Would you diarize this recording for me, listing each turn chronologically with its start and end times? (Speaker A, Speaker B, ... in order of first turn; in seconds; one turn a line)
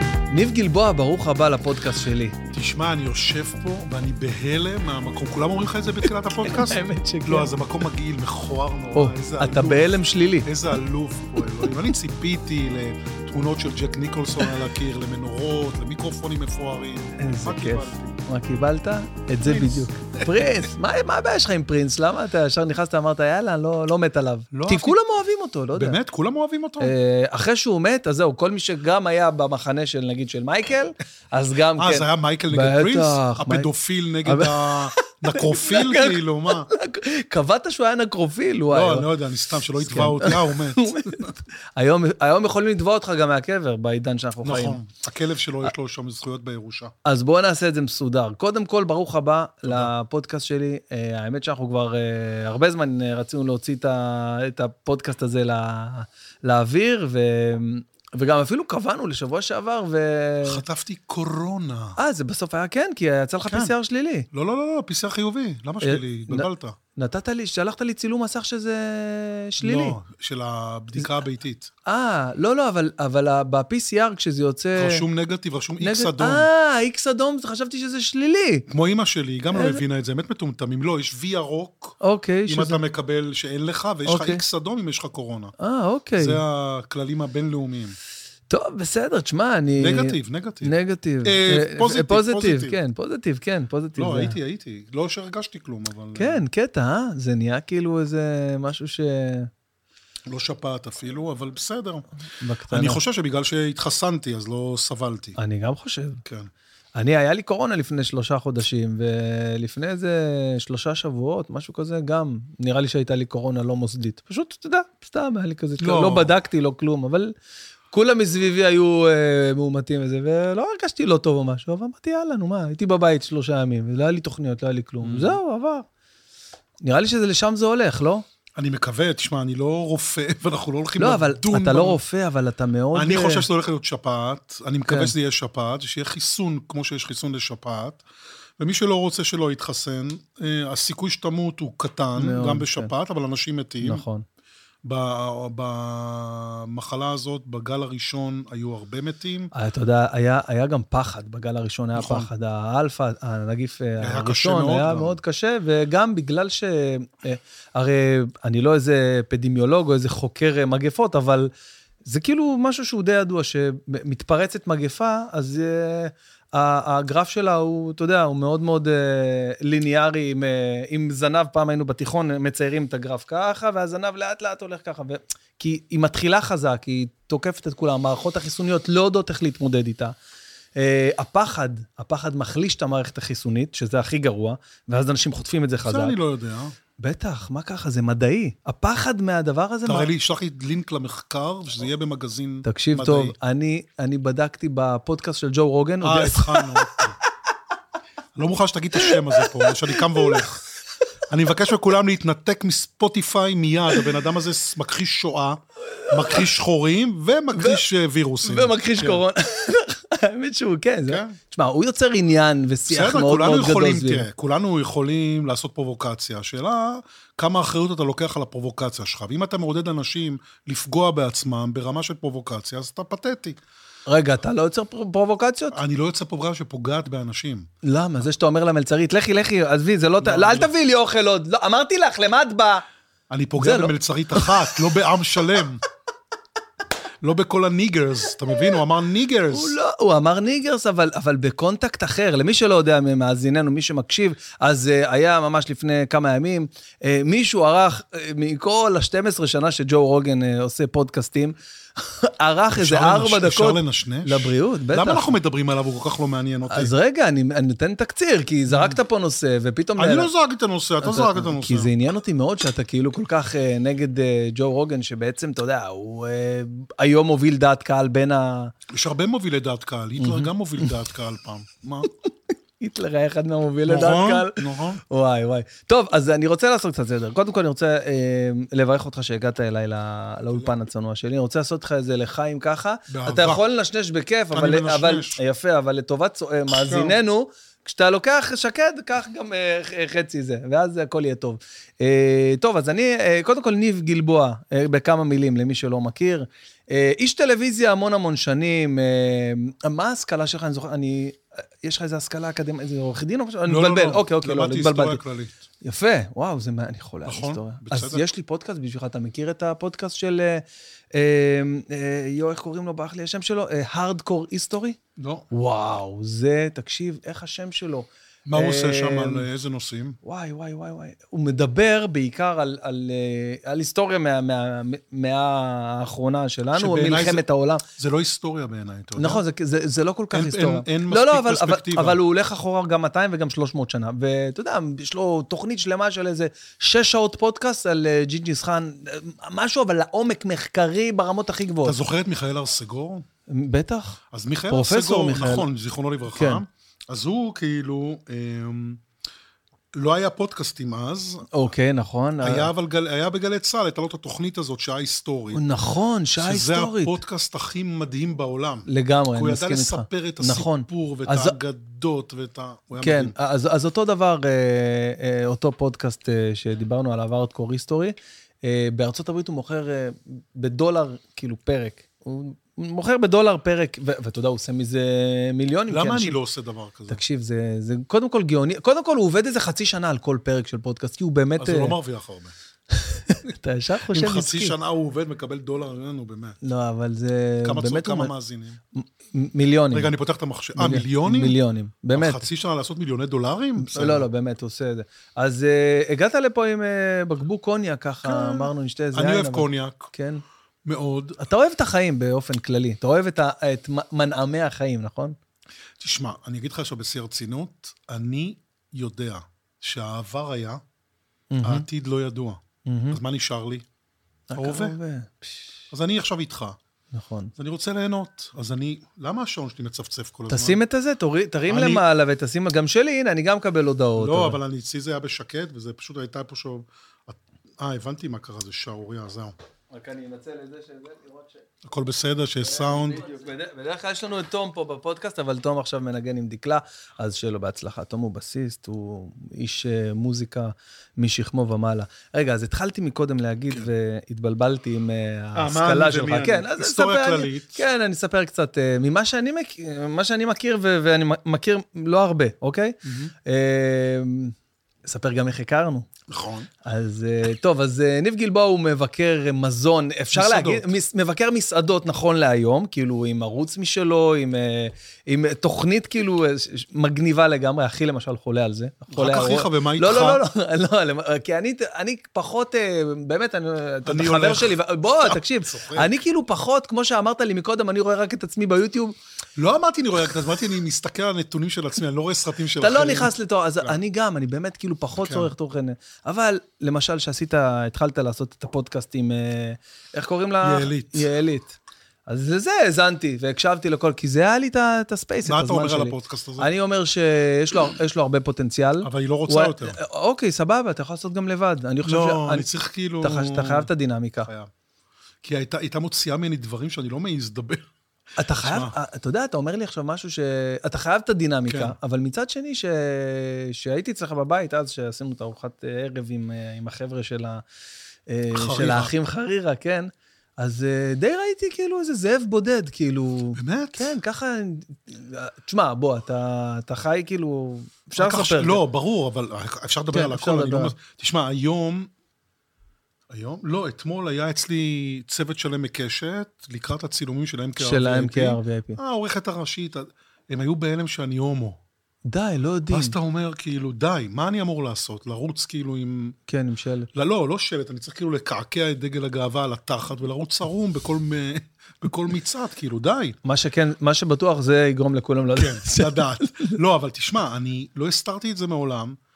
Speaker A: 0.3-2.4
Speaker B: 2.5-18.2
Speaker A: 6.4-7.5
Speaker A: 8.9-10.5
Speaker A: 17.2-26.0
Speaker B: 19.4-20.5
Speaker B: 24.5-25.0
Speaker B: 25.8-26.9
Speaker A: 26.8-33.7
Speaker B: 31.8-36.7
Speaker A: 34.2-39.1
Speaker B: 38.7-41.4
Speaker A: 39.7-44.8
Speaker B: 44.4-46.9
Speaker A: 47.0-60.6
Speaker B: 49.6-49.9
Speaker B: 60.4-62.0
Speaker A: 62.0-64.3
Speaker B: 63.4-63.7
Speaker B: 64.3-66.8
Speaker A: 65.8-70.0
Speaker B: 69.6-71.7
Speaker A: 71.8-75.0
Speaker B: 74.7-76.5
Speaker A: 75.8-78.7
Speaker B: 78.7-85.5
Speaker A: 79.5-79.8
Speaker A: 82.0-82.8
Speaker A: 84.0-84.4
Speaker A: 85.6-86.4
Speaker B: 86.2-88.0
Speaker A: 88.5-94.4
Speaker B: 89.8-92.8
Speaker B: 94.0-96.4
Speaker A: 96.1-99.5
Speaker B: 100.3-102.0
Speaker A: 102.4-103.0
Speaker B: 102.7-105.4
Speaker A: 105.4-106.2
Speaker B: 106.2-106.5
Speaker A: 107.0-117.3
Speaker B: 115.8-116.3
Speaker A: 117.9-125.8
Speaker B: 125.0-125.4
Speaker A: 126.8-128.2
Speaker B: 128.6-132.0
Speaker A: 131.0-133.4
Speaker B: 132.9-138.0
Speaker A: 134.9-135.1
Speaker B: 138.6-144.0
Speaker A: 142.2-142.9
Speaker A: 143.8-144.2
Speaker B: 144.8-149.5
Speaker A: 149.5-161.5
Speaker B: 151.9-152.3
Speaker B: 154.0-155.2
Speaker A: 162.0-180.1
Speaker A: 180.8-186.2
Speaker B: 185.8-186.7
Speaker A: 187.0-190.1
Speaker B: 189.8-193.3
Speaker A: 192.6-197.0
Speaker B: 196.0-197.2
Speaker B: 198.3-200.6
Speaker A: 198.9-200.4
Speaker B: 201.3-209.2
Speaker A: 205.9-206.4
Speaker A: 207.5-207.8
Speaker A: 208.4-214.3
Speaker B: 211.1-211.4
Speaker B: 212.9-223.6
Speaker A: 224.1-225.8
Speaker B: 225.7-227.7
Speaker A: 227.8-232.8
Speaker B: 230.2-230.7
Speaker B: 233.3-235.8
Speaker A: 233.6-234.8
Speaker B: 237.2-239.7
Speaker A: 239.5-255.3
Speaker B: 252.7-256.9
Speaker A: 256.7-260.3
Speaker B: 258.7-259.0
Speaker B: 260.0-261.9
Speaker A: 261.0-268.7
Speaker B: 268.9-272.1
Speaker A: 270.2-271.0
Speaker A: 272.8-305.2
Speaker B: 273.8-275.0
Speaker B: 280.4-280.8
Speaker B: 283.1-283.6
Speaker B: 284.5-285.4
Speaker B: 286.7-287.2
Speaker B: 303.7-305.5
Speaker A: 305.8-315.0
Speaker B: 307.2-308.3
Speaker B: 315.2-315.5
Speaker A: 315.5-319.5
Speaker B: 318.5-320.2
Speaker A: 320.2-327.8
Speaker B: 326.7-327.4
Speaker B: 328.0-329.4
Speaker A: 329.2-342.0
Speaker B: 330.3-332.2
Speaker B: 341.8-343.2
Speaker A: 343.5-345.7
Speaker B: 344.3-349.0
Speaker A: 346.3-346.6
Speaker B: 349.9-351.7
Speaker A: 351.5-352.7
Speaker B: 352.4-355.6
Speaker A: 355.5-357.2
Speaker B: 356.4-363.4
Speaker A: 358.9-361.6
Speaker A: 363.0-376.4
Speaker B: 375.9-377.2
Speaker A: 377.1-381.9
Speaker B: 381.6-382.5
Speaker A: 382.9-384.7
Speaker B: 384.1-386.6
Speaker A: 386.6-388.3
Speaker B: 387.6-388.8
Speaker A: 388.9-390.1
Speaker B: 389.9-391.6
Speaker A: 390.8-392.4
Speaker B: 392.1-394.3
Speaker A: 393.8-400.4
Speaker B: 398.2-400.1
Speaker B: 400.8-401.4
Speaker A: 401.4-405.4
Speaker B: 406.0-410.8
Speaker A: 411.5-411.9
Speaker B: 411.6-413.8
Speaker A: 412.8-413.2
Speaker A: 414.5-415.8
Speaker B: 414.5-415.0
Speaker B: 415.9-416.8
Speaker A: 417.1-417.5
Speaker B: 417.6-420.8
Speaker A: 420.5-424.6
Speaker B: 421.7-422.0
Speaker B: 424.2-429.5
Speaker A: 429.9-431.6
Speaker B: 431.8-433.2
Speaker A: 432.6-456.1
Speaker B: 445.5-447.8
Speaker B: 453.0-453.3
Speaker B: 456.3-456.7
Speaker A: 456.8-479.1
Speaker B: 460.3-460.9
Speaker B: 469.1-470.4
Speaker B: 474.1-476.1
Speaker B: 479.6-484.0
Speaker A: 482.8-502.6
Speaker B: 485.2-485.5
Speaker B: 490.6-491.3
Speaker B: 495.4-496.7
Speaker B: 499.0-500.0
Speaker B: 502.0-503.9
Speaker A: 503.2-504.5
Speaker B: 504.4-504.7
Speaker B: 505.4-507.8
Speaker A: 508.4-517.6
Speaker B: 508.6-508.9
Speaker B: 511.7-511.9
Speaker A: 518.3-528.8
Speaker B: 518.5-519.1
Speaker B: 523.5-524.1
Speaker B: 528.2-532.1
Speaker A: 530.1-530.9
Speaker B: 533.3-541.8
Speaker A: 537.8-539.0
Speaker A: 542.3-543.1
Speaker B: 542.9-546.4
Speaker A: 546.5-547.1
Speaker B: 547.1-553.4
Speaker A: 553.4-556.8
Speaker B: 555.5-559.2